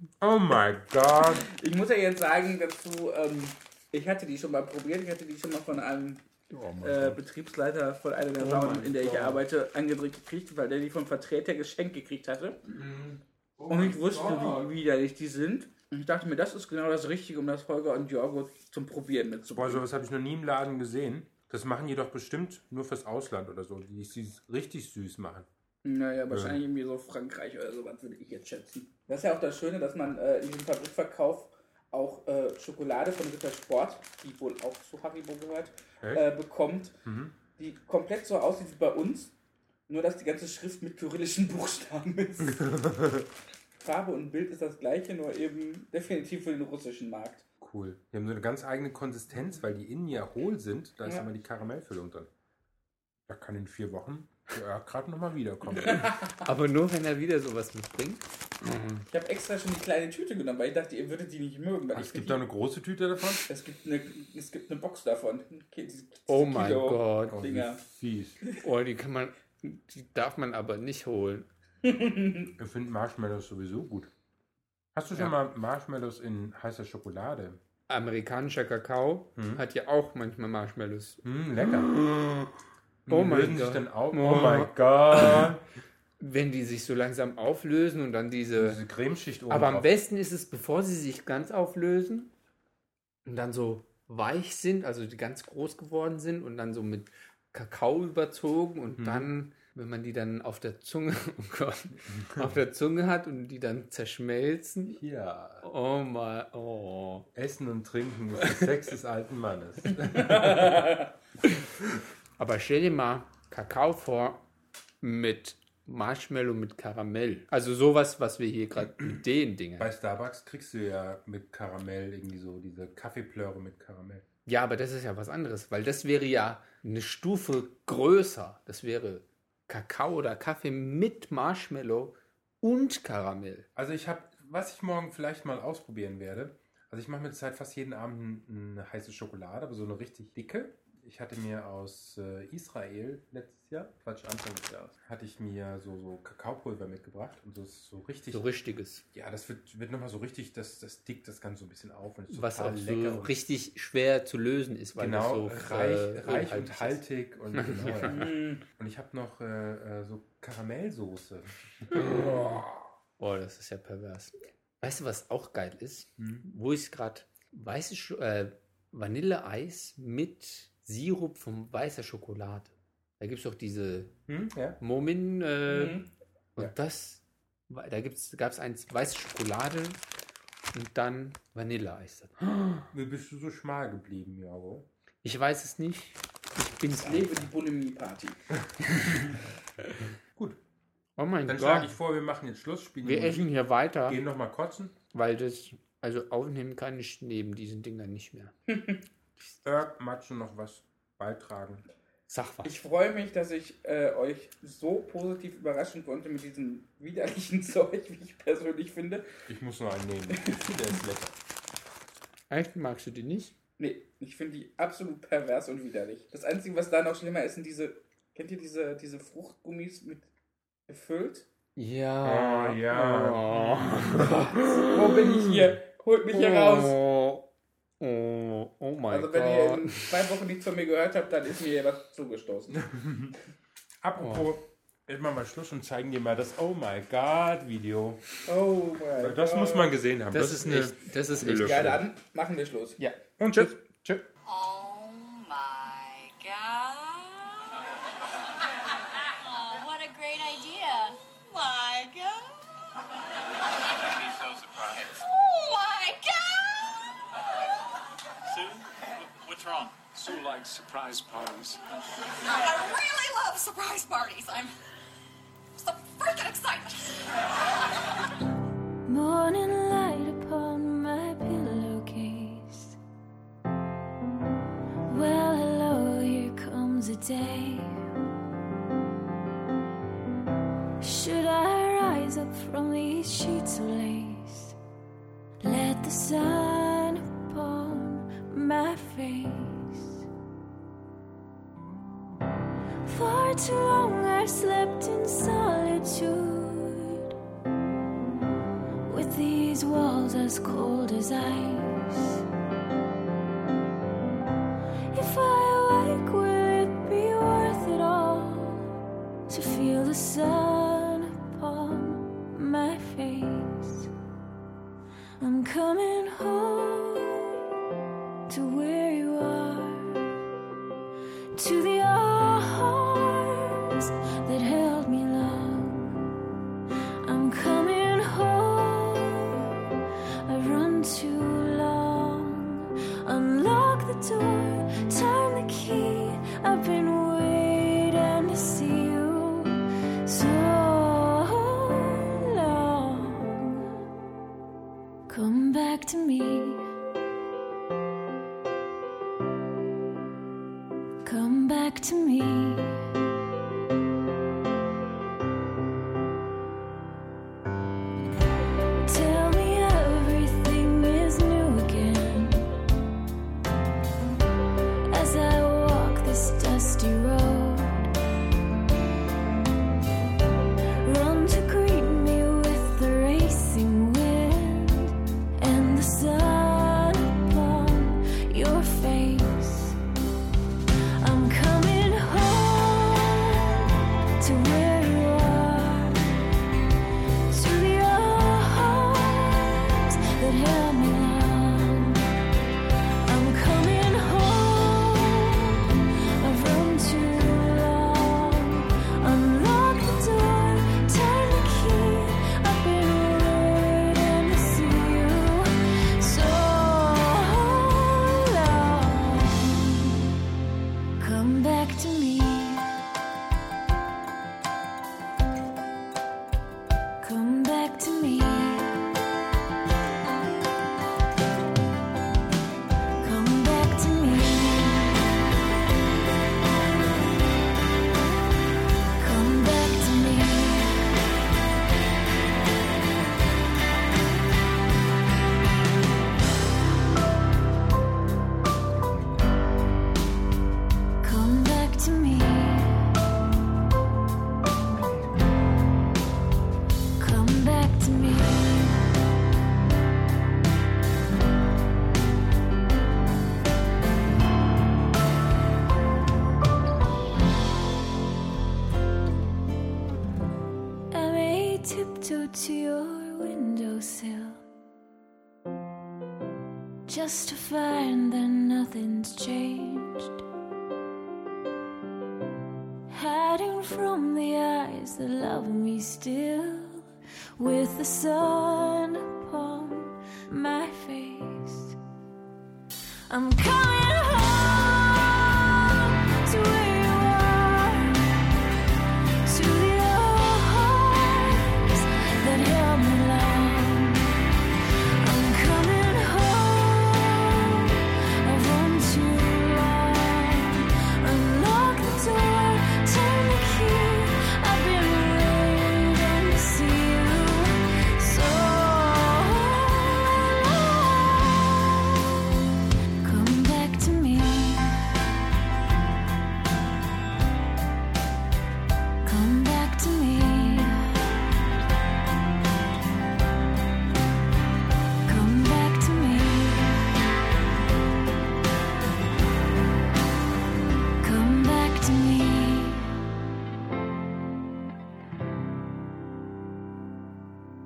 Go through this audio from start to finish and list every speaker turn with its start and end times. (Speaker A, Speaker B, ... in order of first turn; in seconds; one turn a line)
Speaker A: 0.2-1.5
Speaker B: 1.4-6.2
Speaker C: 6.5-7.2
Speaker B: 6.8-12.6
Speaker C: 8.4-9.3
Speaker A: 9.0-9.4
Speaker C: 12.7-14.7
Speaker B: 13.7-19.8
Speaker A: 19.6-25.5
Speaker B: 25.9-37.0
Speaker A: 26.3-26.6
Speaker A: 37.0-37.4
Speaker B: 37.6-39.3
Speaker B: 39.9-42.7
Speaker A: 42.4-43.3
Speaker B: 43.8-47.4
Speaker A: 47.6-52.3
Speaker A: 53.3-56.1
Speaker B: 55.7-56.3
Speaker C: 56.4-59.0
Speaker B: 59.1-62.4
Speaker A: 61.9-63.5
Speaker B: 63.5-67.8
Speaker C: 66.3-67.4
Speaker A: 67.3-68.4
Speaker C: 68.6-71.5
Speaker B: 71.8-72.5
Speaker A: 72.6-74.1
Speaker A: 74.9-77.6
Speaker C: 77.9-82.5
Speaker A: 79.4-79.6
Speaker A: 81.2-81.9
Speaker A: 83.1-85.6
Speaker C: 83.1-85.5
Speaker C: 86.2-88.8
Speaker A: 88.6-89.9
Speaker C: 89.5-92.3
Speaker C: 93.3-105.0
Speaker A: 99.0-99.3
Speaker A: 105.0-105.7
Speaker C: 105.6-107.3
Speaker A: 107.3-110.9
Speaker B: 110.1-111.1
Speaker C: 112.4-114.5
Speaker C: 115.0-119.9
Speaker A: 119.8-124.2
Speaker C: 124.5-133.7
Speaker A: 133.8-148.4
Speaker C: 148.3-149.0
Speaker A: 149.1-153.3
Speaker C: 152.3-157.0
Speaker A: 155.0-162.0
Speaker C: 157.5-158.2
Speaker B: 158.1-158.6
Speaker C: 162.0-174.1
Speaker A: 166.2-166.4
Speaker A: 174.3-174.8
Speaker C: 174.8-176.0
Speaker B: 175.7-176.1
Speaker C: 176.6-180.0
Speaker C: 180.7-182.9
Speaker A: 182.9-184.9
Speaker C: 185.2-187.4
Speaker B: 186.9-188.4
Speaker C: 191.2-191.9
Speaker A: 191.5-193.5
Speaker C: 193.0-194.2
Speaker A: 194.1-194.9
Speaker C: 195.1-198.5
Speaker B: 198.7-199.0
Speaker A: 199.6-201.8
Speaker C: 202.3-202.7
Speaker B: 202.7-209.3
Speaker A: 209.5-211.3
Speaker B: 210.4-210.7
Speaker C: 212.5-213.5
Speaker B: 213.8-220.3
Speaker B: 220.9-221.5
Speaker C: 221.8-225.5
Speaker A: 222.2-224.5
Speaker B: 224.8-227.0
Speaker C: 226.3-230.1
Speaker B: 229.1-232.8
Speaker A: 232.8-233.4
Speaker A: 234.0-238.2
Speaker C: 234.2-234.5
Speaker B: 238.5-239.9
Speaker A: 239.2-242.0
Speaker C: 240.3-242.0
Speaker B: 241.5-243.0
Speaker C: 243.0-244.2
Speaker A: 243.4-244.0
Speaker D: 244.5-247.8
Speaker D: 248.7-252.6
Speaker D: 253.7-257.1
Speaker E: 258.5-258.8
Speaker D: 259.4-260.0
Speaker E: 259.9-261.8
Speaker D: 262.4-264.7
Speaker D: 265.8-267.7
Speaker F: 269.1-273.0
Speaker F: 275.1-278.1
Speaker F: 281.0-284.8
Speaker F: 285.6-290.2
Speaker F: 293.1-297.3
Speaker F: 299.1-302.4
Speaker F: 305.1-308.9
Speaker F: 309.5-314.1
Speaker F: 315.4-317.6
Speaker F: 318.5-320.3
Speaker F: 321.5-326.2
Speaker F: 327.2-329.9
Speaker F: 330.5-343.9
Speaker F: 345.3-346.9
Speaker F: 351.2-353.0
Speaker F: 359.1-362.7
Speaker F: 365.1-368.1
Speaker F: 371.0-380.0
Speaker F: 381.2-386.3
Speaker F: 387.5-392.2
Speaker F: 393.3-410.2
Speaker F: 411.2-412.8
Speaker F: 417.2-419.0
Speaker F: 423.2-425.2
Speaker F: 429.2-431.0
Speaker F: 441.2-443.1
Speaker F: 447.2-449.0
Speaker F: 461.1-464.6
Speaker F: 467.1-470.4
Speaker F: 473.1-482.0
Speaker F: 483.3-488.3
Speaker F: 489.4-494.3
Speaker F: 495.2-511.4
Speaker F: 513.2-514.9
Speaker F: 519.2-521.1
Speaker F: 525.3-527.0
Speaker F: 531.2-533.1